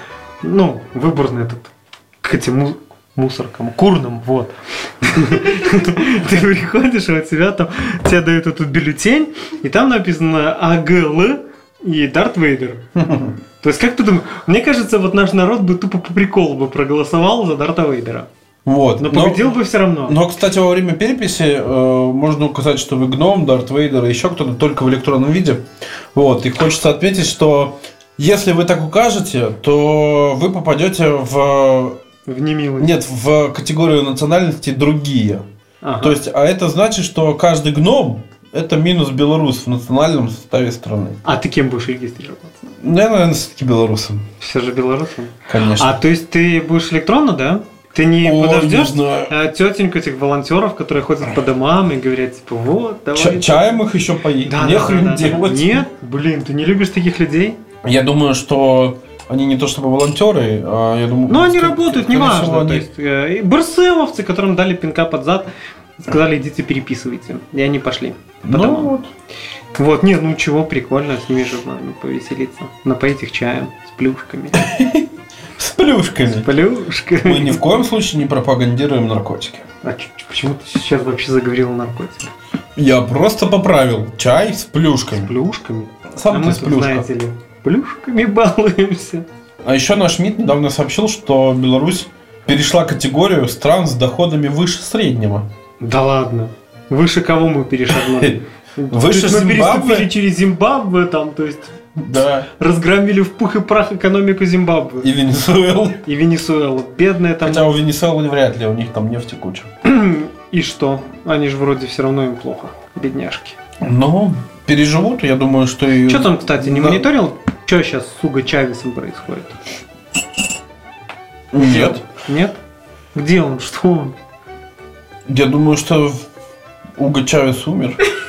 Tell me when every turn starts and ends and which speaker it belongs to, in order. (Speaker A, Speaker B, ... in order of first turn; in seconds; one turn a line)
Speaker A: 0.4-12.8
Speaker B: 12.9-13.4
Speaker A: 13.6-18.3
Speaker B: 18.6-32.0
Speaker A: 19.0-20.2
Speaker A: 32.3-32.9
Speaker B: 32.8-35.5
Speaker A: 35.8-36.2
Speaker B: 36.0-41.2
Speaker A: 41.2-42.6
Speaker B: 42.8-44.3
Speaker A: 44.4-53.8
Speaker B: 45.5-46.0
Speaker B: 48.2-49.3
Speaker B: 53.1-55.8
Speaker A: 54.4-57.6
Speaker B: 57.8-62.9
Speaker A: 61.3-68.9
Speaker B: 68.5-69.1
Speaker A: 69.8-74.6
Speaker B: 74.5-76.5
Speaker A: 76.4-77.6
Speaker B: 77.2-79.7
Speaker A: 79.8-82.3
Speaker B: 82.8-85.3
Speaker A: 85.1-89.3
Speaker B: 86.1-87.1
Speaker B: 89.6-95.5
Speaker A: 95.8-101.7
Speaker B: 97.9-100.1
Speaker B: 102.0-102.5
Speaker A: 102.6-105.1
Speaker B: 105.0-106.0
Speaker A: 106.0-107.7
Speaker B: 107.4-109.7
Speaker A: 109.8-113.6
Speaker B: 113.8-117.1
Speaker A: 116.1-119.6
Speaker B: 121.5-122.0
Speaker A: 121.6-122.6
Speaker A: 123.1-124.2
Speaker B: 125.3-126.2
Speaker B: 127.0-128.0